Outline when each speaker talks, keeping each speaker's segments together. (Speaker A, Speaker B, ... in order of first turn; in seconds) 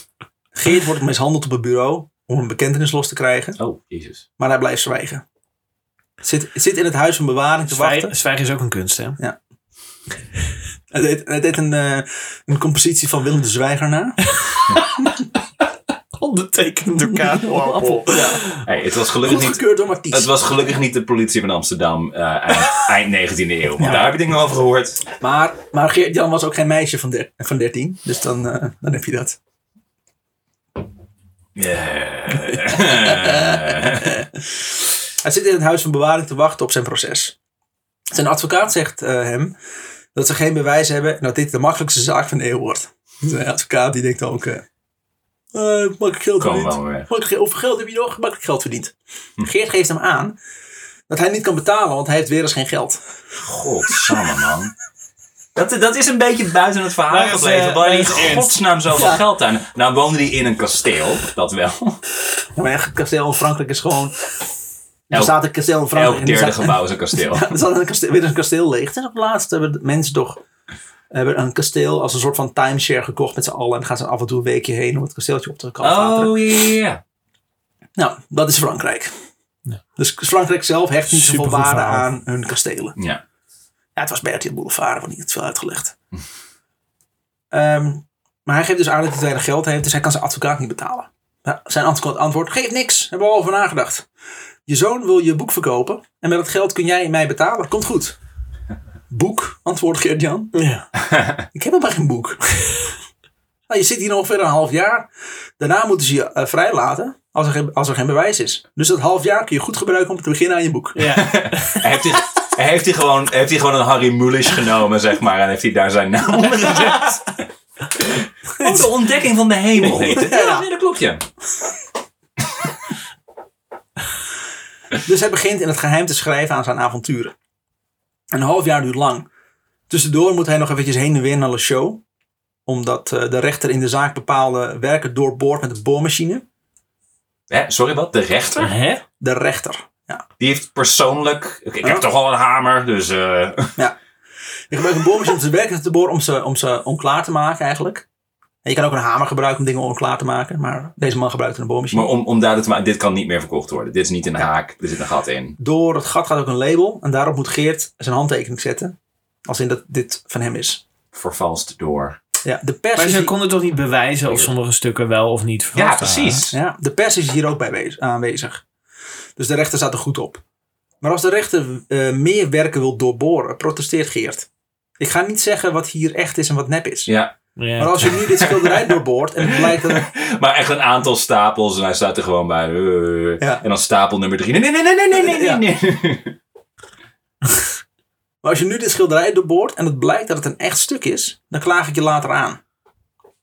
Speaker A: 0.5-3.6, 4.4-5.2, 6.2-8.1, 10.9-14.2, 17.4-18.4, 19.2-20.3, 25.2-29.4, 32.5-34.2, 35.2-37.3, 38.1-39.5, 40.1-44.6, 45.5-50.4, 51.1-53.0, 58.9-59.2, 62.5-64.1, 65.1-70.4, 71.1-76.3, 78.0-79.1, 80.0-83.0, 84.0-85.9, 87.5-94.0, 94.7-98.2, 99.1-100.5, 101.5-102.9, 103.7-105.1, 105.6-111.1, 119.8-120.7, 125.0-127.3, 128.3-129.3, 129.9-132.0, 132.7-136.4, 139.2-140.2, 144.7-148.0, 148.6-152.1, 155.6-158.9, 159.4-160.8, 162.4-163.3, 166.5-168.6, 169.4-170.4, 171.0-174.5, 175.0-177.1, 177.8-180.1, 185.1-185.6, 188.4-192.6
Speaker B: 3.6-4.2, 18.5-25.0, 31.5-34.2, 46.4-47.1, 53.4-54.7, 55.5-62.0, 65.9-67.5, 75.8-77.0, 83.0-83.2, 101.0-101.4, 111.1-117.4, 118.0-121.2, 137.5-138.7, 140.4-143.8, 151.9-155.6, 161.1-162.2, 165.7-166.6, 177.1-177.3, 178.2-186.4
Speaker C: 7.7-9.2, 14.3-15.0, 16.2-18.6, 57.1-58.6, 81.1-82.1, 100.5-100.9, 110.9-111.9, 138.6-139.0, 162.9-166.4, 177.6-178.2